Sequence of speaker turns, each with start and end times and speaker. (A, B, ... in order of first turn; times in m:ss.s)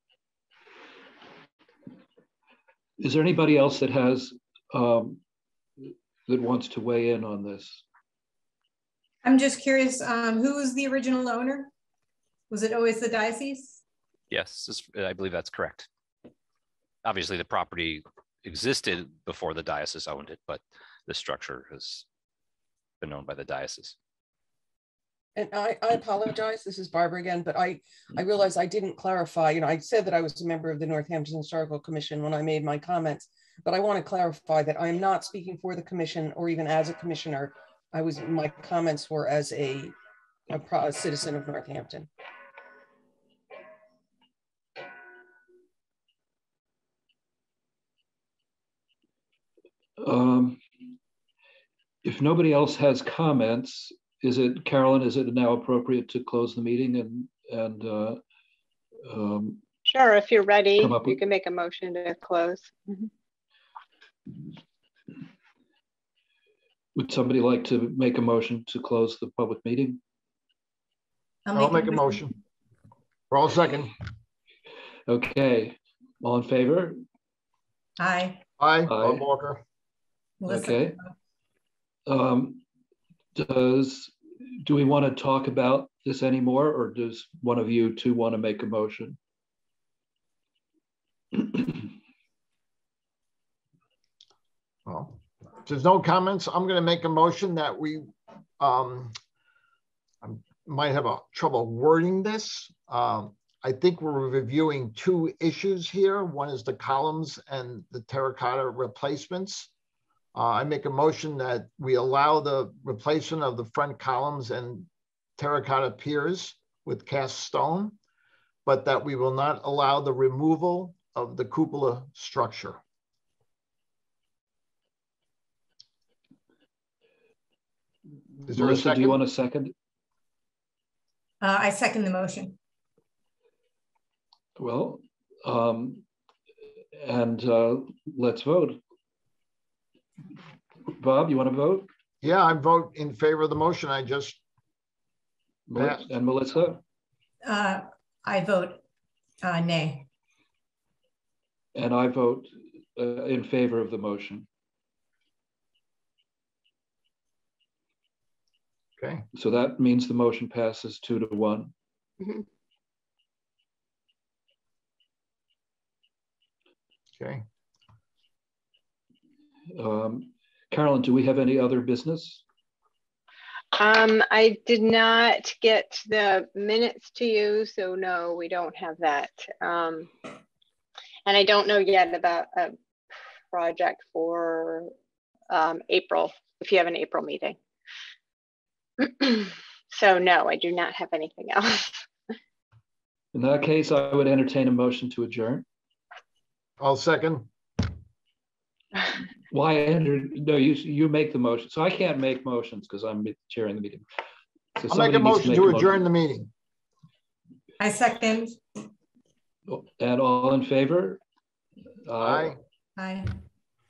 0:03.0-0:05.2 A
0:05.8-0:07.8 A
0:09.2-0:11.7 B
0:12.5-0:13.8 B
0:14.3-0:15.9 C
0:17.0-0:22.0 C
0:23.0-0:24.0 C
0:25.4-0:39.9 D
0:40.5-0:42.1 D
0:50.0-0:50.6 A
0:52.0-0:58.2 A
0:59.0-0:59.6 A
0:59.8-1:03.1 E
1:00.8-1:01.2 A
1:06.9-1:10.0 A
1:11.4-1:12.3 B
1:11.5-1:12.3 F
1:13.3-1:14.0 F
1:15.1-1:17.0 A
1:18.0-1:18.5 B
1:18.6-1:19.6 F
1:18.9-1:19.2 A
1:20.4-1:21.1 B
1:20.5-1:21.0 A
1:22.1-1:22.6 A
1:23.3-1:29.2 A
1:31.3-1:31.9 A
1:34.8-1:39.1 F
1:40.2-1:49.7 F
1:50.3-1:58.0 F
1:58.6-2:02.8 F
2:08.4-2:09.7 A
2:08.5-2:09.2 F
2:11.4-2:12.6 B
2:14.6-2:16.0 A
2:17.0-2:18.8 A
2:20.9-2:21.9 A
2:22.2-2:24.4 F
2:25.7-2:26.8 A
2:25.8-2:26.0 F
2:27.4-2:28.8 B
2:29.4-2:30.1 B
2:31.7-2:34.5 A
2:39.0-2:39.2 F
2:39.3-2:41.7 A
2:47.2-2:47.4 F
2:49.7-2:52.4 A
2:53.8-3:00.1 E
3:01.2-3:02.8 E
3:03.5-3:04.9 E
3:05.5-3:07.6 E
3:09.0-3:12.1 E
3:13.3-3:15.6 A
3:16.8-3:17.5 F
3:19.5-3:24.0 A
3:24.8-3:26.0 A
3:24.9-3:26.5 F
3:27.8-3:28.6 B
3:29.7-3:31.2 A
3:32.0-3:32.5 A
3:32.2-3:32.6 F
3:33.0-3:33.4 B